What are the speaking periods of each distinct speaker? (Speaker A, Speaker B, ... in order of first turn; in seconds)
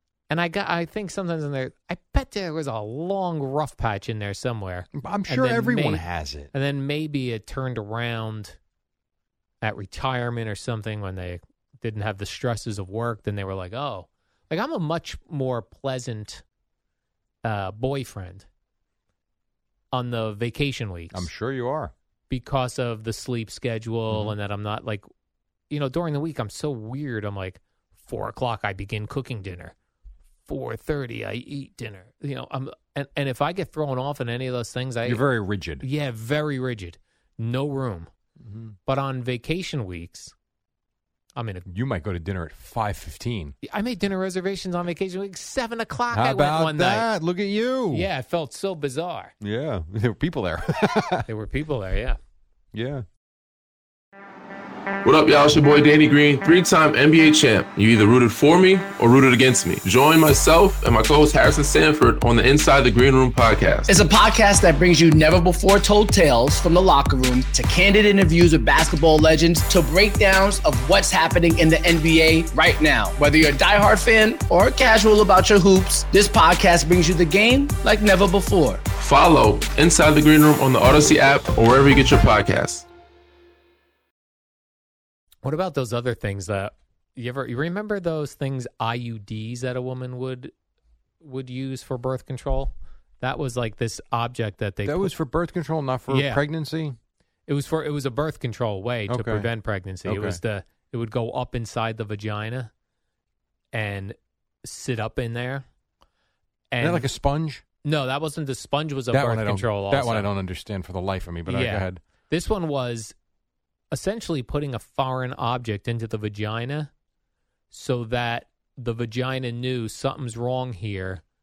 Speaker A: 0.3-8.6, 9.6-16.4, 17.4-18.5, 19.9-21.3, 22.3-25.1, 25.7-29.7, 30.5-35.2, 35.8-38.1, 38.9-40.3, 41.4-41.7, 43.6-47.1, 47.9-49.3, 51.3-52.2, 85.4-90.5, 91.2-95.1, 96.1-96.4, 97.5-102.7, 103.7-105.7, 106.7-107.1, 107.8-110.3, 111.5-113.2, 113.9-116.9, 117.7-121.2
Speaker B: 4.9-6.5, 21.1-21.9, 24.1-24.4, 35.0-35.9, 38.4-38.8, 41.7-43.6, 46.1-48.1, 49.4-51.3, 52.7-53.1, 94.8-97.0, 99.1-99.5, 100.0-100.4, 106.8-107.6, 109.1-112.0
Speaker C: 55.0-63.9, 79.0-82.9
Speaker D: 63.9-78.8